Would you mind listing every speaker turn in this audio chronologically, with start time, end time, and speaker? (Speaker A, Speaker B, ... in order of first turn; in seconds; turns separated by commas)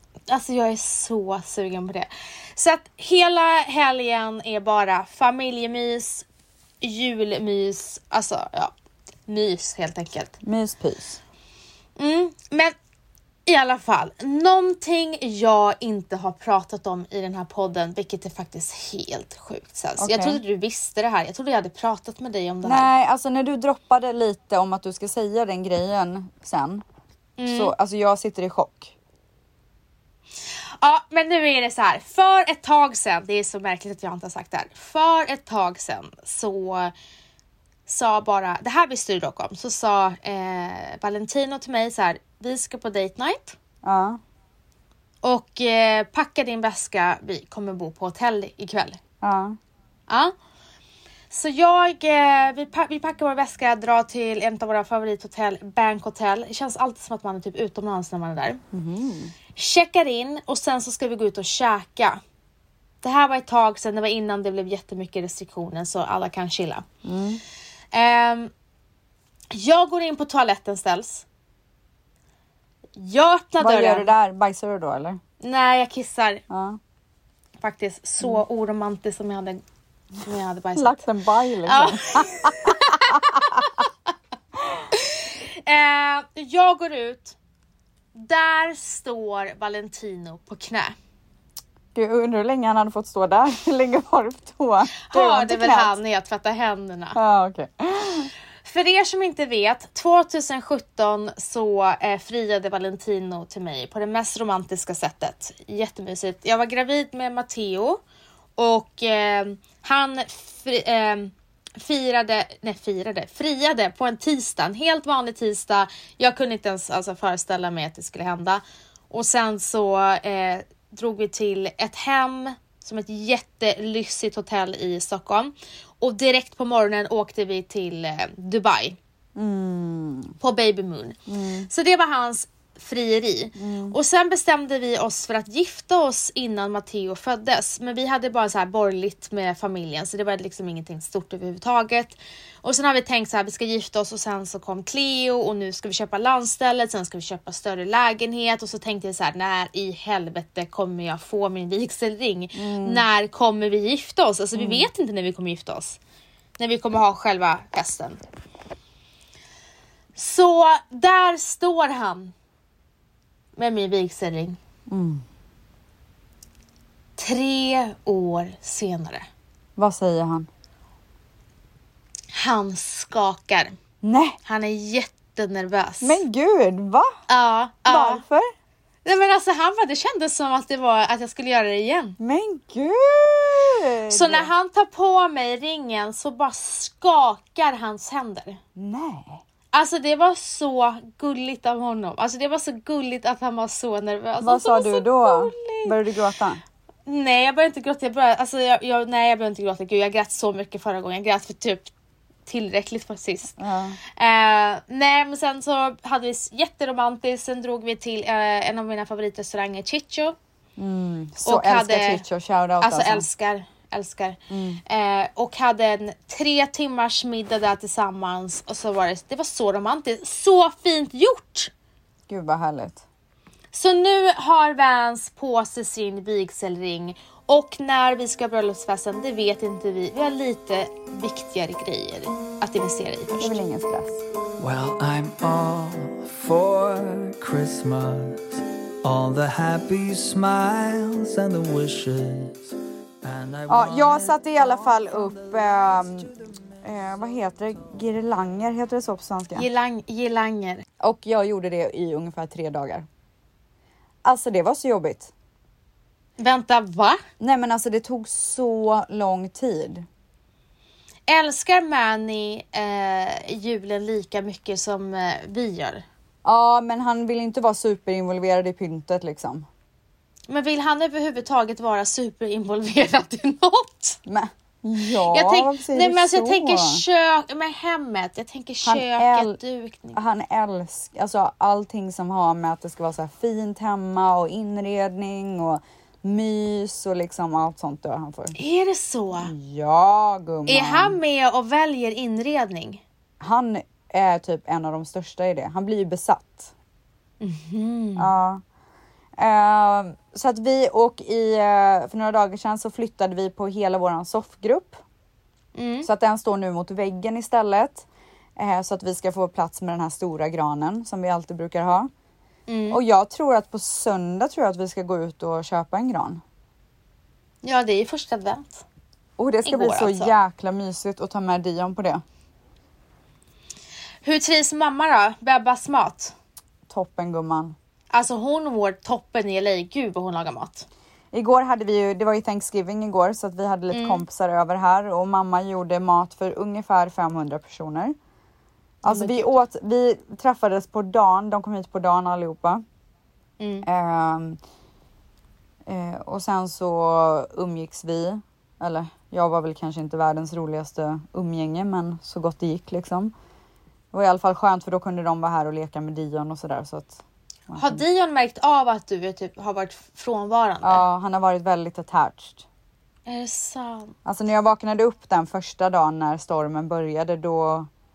Speaker A: 0.3-6.3, Speaker A: 6.8-8.7, Speaker A: 9.3-10.4, Speaker B: 10.4-11.2, Speaker A: 12.0-12.7, Speaker A: 13.5-22.9, Speaker B: 20.0-20.4, Speaker B: 22.6-26.8, Speaker A: 27.4-27.7, Speaker B: 27.5-28.9, Speaker A: 30.8-36.9, Speaker A: 37.9-43.6, Speaker B: 43.8-44.2, Speaker A: 45.2-49.0, Speaker B: 49.2-49.6, Speaker A: 50.1-50.3, Speaker A: 51.3-58.6, Speaker B: 58.7-59.3, Speaker A: 59.5-62.2, Speaker A: 63.0-66.9, Speaker B: 67.0-67.4, Speaker A: 67.9-68.5, Speaker A: 69.5-71.2, Speaker A: 73.0-74.1, Speaker B: 73.6-75.2, Speaker A: 75.4-76.4, Speaker B: 76.5-76.8, Speaker A: 77.6-79.6, Speaker A: 80.2-81.1, Speaker B: 80.8-83.7, Speaker A: 81.7-83.6, Speaker A: 85.0-87.4, Speaker A: 88.1-91.0, Speaker B: 92.0-96.0, Speaker A: 95.0-97.2, Speaker B: 97.2-98.3, Speaker A: 98.6-108.0, Speaker A: 108.6-129.0, Speaker B: 129.4-130.3, Speaker A: 130.4-156.0, Speaker B: 131.3-131.7, Speaker B: 133.6-134.0, Speaker B: 152.6-153.0, Speaker B: 154.6-154.9, Speaker A: 156.6-158.2, Speaker A: 160.2-162.3, Speaker A: 163.6-164.6, Speaker B: 164.9-165.2, Speaker A: 167.2-169.3, Speaker B: 169.8-170.5, Speaker A: 172.3-173.8, Speaker B: 174.0-174.4, Speaker A: 174.4-176.2, Speaker B: 176.0-177.2, Speaker A: 177.3-178.2, Speaker B: 177.9-178.5, Speaker A: 179.1-182.2, Speaker B: 182.2-184.5, Speaker A: 184.1-188.6, Speaker B: 188.8-189.4, Speaker A: 189.7-196.0, Speaker B: 194.4-196.6, Speaker A: 197.1-201.9, Speaker A: 202.5-203.6, Speaker B: 203.6-204.0, Speaker A: 204.2-210.4, Speaker B: 210.8-213.3, Speaker A: 211.4-212.2, Speaker A: 212.8-221.7, Speaker B: 214.5-214.8, Speaker B: 222.3-223.0, Speaker A: 223.7-233.6, Speaker B: 233.4-234.2, Speaker C: 234.6-248.3, Speaker B: 243.7-249.7, Speaker A: 249.6-250.8, Speaker B: 251.0-253.1, Speaker B: 254.2-255.3, Speaker A: 256.4-257.2, Speaker B: 257.4-260.1, Speaker A: 261.3-266.0, Speaker B: 266.4-269.7, Speaker A: 270.5-274.2, Speaker B: 274.3-277.0, Speaker A: 275.3-280.2, Speaker B: 278.9-279.6, Speaker B: 280.1-288.6, Speaker A: 288.6-289.5, Speaker B: 289.4-291.2, Speaker A: 290.7-293.0, Speaker B: 293.4-296.7, Speaker A: 297.4-298.3, Speaker B: 298.2-298.6, Speaker B: 299.4-305.0, Speaker A: 305.8-306.1, Speaker B: 306.0-308.1, Speaker B: 308.6-312.1, Speaker A: 312.7-313.0, Speaker B: 312.9-316.4, Speaker A: 317.6-318.9, Speaker B: 319.4-322.2, Speaker A: 319.7-320.4, Speaker A: 324.2-326.3, Speaker B: 326.9-327.8, Speaker A: 328.1-330.9, Speaker B: 331.3-338.1, Speaker A: 333.9-334.2, Speaker B: 339.0-342.8, Speaker A: 339.1-339.6, Speaker A: 343.6-343.9, Speaker B: 343.8-344.6, Speaker B: 345.9-353.3, Speaker B: 354.1-358.0, Speaker A: 357.8-361.0, Speaker B: 360.8-362.7, Speaker A: 363.3-364.1, Speaker B: 364.3-367.9